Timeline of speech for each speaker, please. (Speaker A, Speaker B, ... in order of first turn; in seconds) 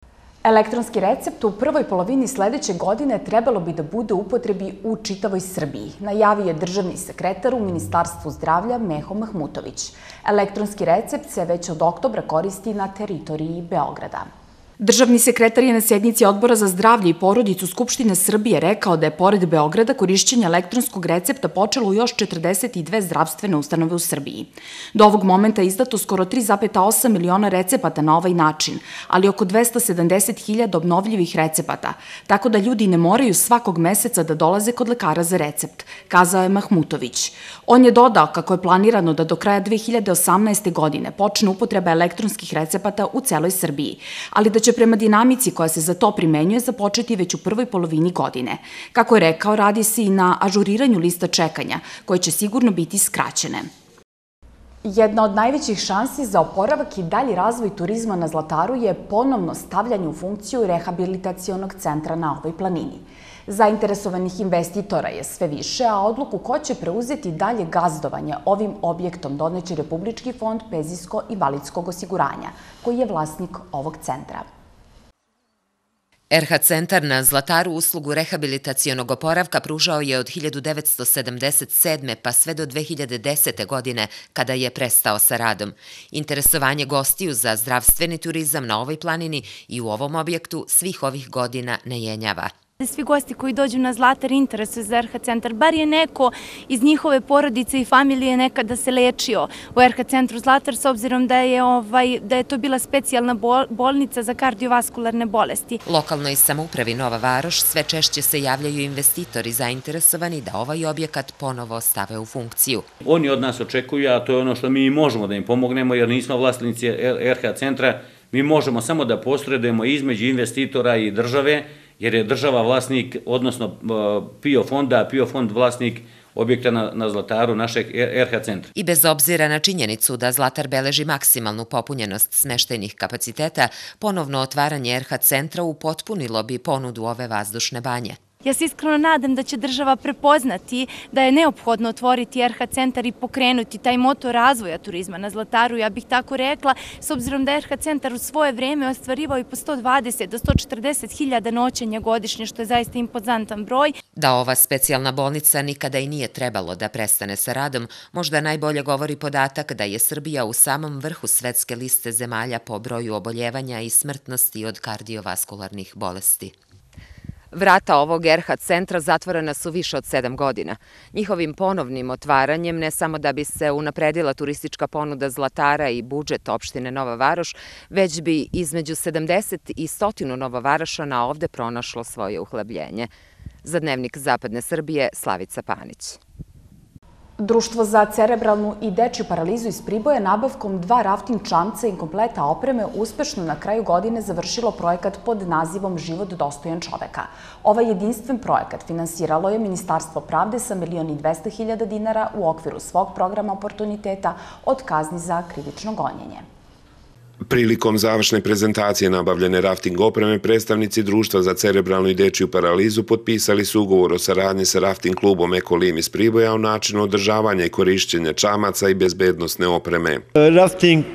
Speaker A: 0.4-53.7, 54.8-74.5, 187.4-206.4
Speaker B: 76.3-92.5, 105.8-112.8, 128.7-138.2, 154.2-166.5, 167.5-183.1, 183.6-186.2
Speaker C: 92.8-105.8, 138.4-153.9
Speaker D: 113.0-128.7
Speaker E: 207.4-220.2